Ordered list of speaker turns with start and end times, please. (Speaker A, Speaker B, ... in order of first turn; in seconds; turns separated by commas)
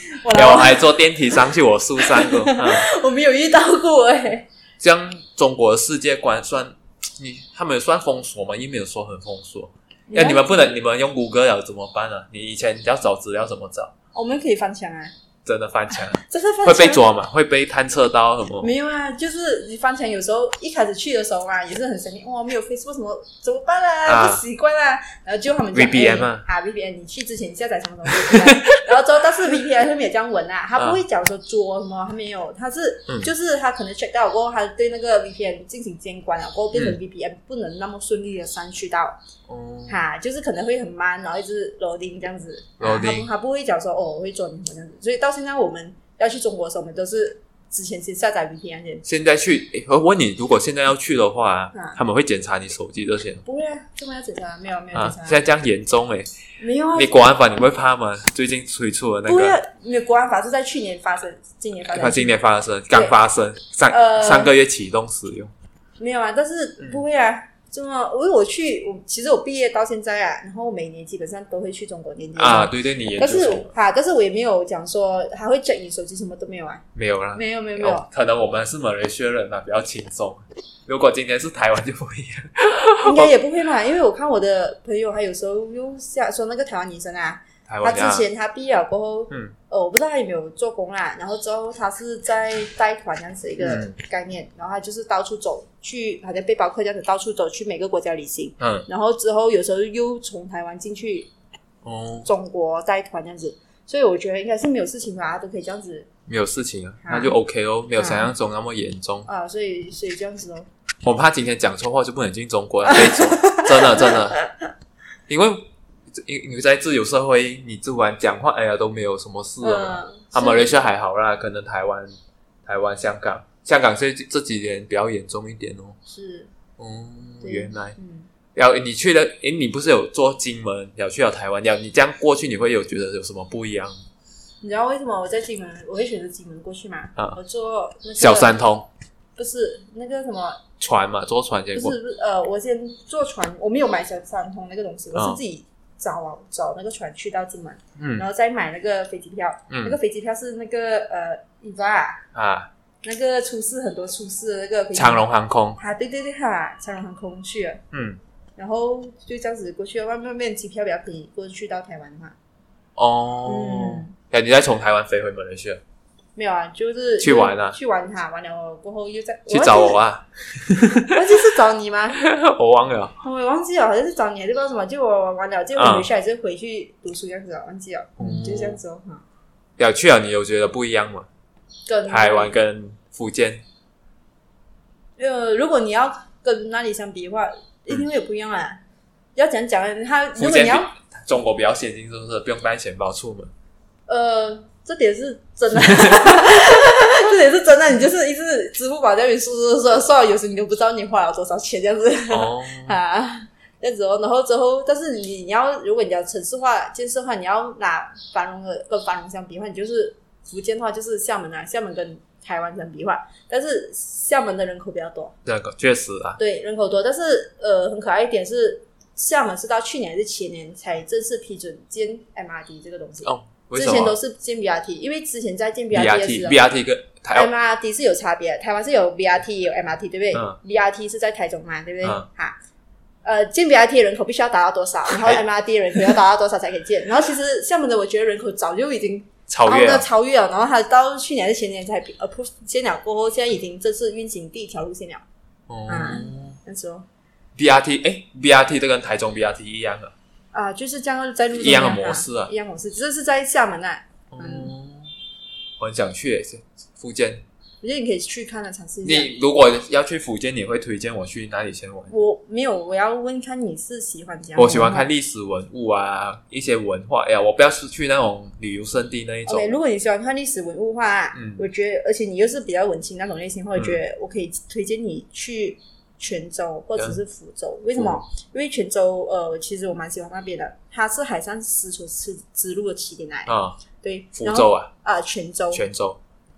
Speaker A: 0.2-0.9, Speaker B: 0.3-2.9, Speaker A: 2.0-4.5, Speaker B: 4.8-13.9, Speaker A: 10.1-10.7, Speaker A: 14.1-15.1, Speaker B: 15.4-18.7, Speaker A: 16.2-17.0, Speaker A: 18.6-39.2, Speaker B: 24.1-24.4, Speaker B: 25.7-26.4, Speaker B: 28.1-28.8, Speaker B: 39.5-40.0, Speaker A: 39.9-49.0, Speaker B: 42.8-43.3, Speaker B: 49.0-53.4, Speaker A: 51.7-52.0, Speaker A: 53.4-55.4, Speaker B: 54.9-56.3, Speaker A: 56.6-57.2, Speaker B: 57.0-59.6, Speaker A: 59.2-62.4, Speaker B: 61.9-65.5, Speaker A: 63.9-64.5, Speaker A: 66.0-76.8, Speaker B: 72.3-73.7, Speaker B: 76.9-83.3, Speaker A: 77.3-78.1, Speaker A: 83.0-101.3, Speaker B: 87.7-88.2, Speaker B: 93.6-93.9, Speaker B: 98.6-98.9, Speaker B: 101.8-102.3, Speaker A: 102.2-106.1, Speaker B: 106.3-109.3, Speaker A: 107.0-107.3, Speaker A: 108.0-108.3, Speaker A: 109.2-110.7, Speaker B: 111.0-114.4, Speaker A: 112.9-114.5, Speaker B: 115.3-122.1, Speaker A: 119.6-120.8, Speaker B: 122.7-126.0, Speaker A: 126.1-126.5, Speaker B: 126.8-128.0, Speaker A: 127.4-128.3, Speaker B: 128.5-133.9, Speaker A: 134.6-138.5, Speaker B: 138.2-138.9, Speaker A: 139.3-140.6, Speaker B: 140.8-141.9, Speaker A: 141.7-152.2, Speaker B: 145.1-145.4, Speaker B: 148.0-148.2, Speaker B: 149.7-150.0, Speaker B: 152.3-152.7, Speaker A: 153.0-155.2, Speaker B: 154.9-155.8, Speaker A: 155.8-157.8, Speaker B: 157.9-158.2, Speaker A: 158.6-162.3, Speaker B: 163.0-165.8, Speaker A: 163.4-164.1, Speaker A: 166.3-170.0, Speaker B: 167.2-167.8, Speaker B: 169.5-171.2, Speaker A: 171.0-172.2, Speaker B: 172.2-173.2, Speaker A: 173.2-179.2, Speaker B: 175.8-176.1, Speaker B: 178.2-178.8, Speaker B: 179.8-181.3, Speaker A: 181.9-182.5, Speaker B: 182.1-183.6, Speaker A: 185.2-188.8, Speaker A: 189.3-190.9, Speaker B: 190.4-193.5, Speaker A: 194.1-215.3, Speaker B: 195.8-196.6, Speaker B: 202.3-202.9, Speaker B: 215.4-216.4, Speaker A: 216.4-226.6, Speaker B: 223.2-224.2, Speaker B: 225.9-227.5, Speaker A: 227.3-232.6, Speaker B: 230.3-230.6, Speaker A: 233.2-245.2, Speaker B: 235.1-235.4, Speaker B: 239.5-240.0, Speaker B: 245.7-246.6, Speaker A: 245.9-247.1, Speaker B: 247.6-250.1, Speaker A: 250.5-254.7, Speaker B: 251.5-252.5, Speaker B: 254.3-255.1, Speaker B: 255.8-257.4, Speaker A: 257.8-259.3, Speaker B: 259.0-262.1, Speaker A: 262.1-265.1, Speaker B: 264.6-269.7, Speaker A: 269.4-285.8, Speaker B: 271.3-271.6, Speaker B: 278.0-278.2, Speaker B: 283.5-283.8, Speaker B: 284.4-284.9, Speaker B: 285.7-286.2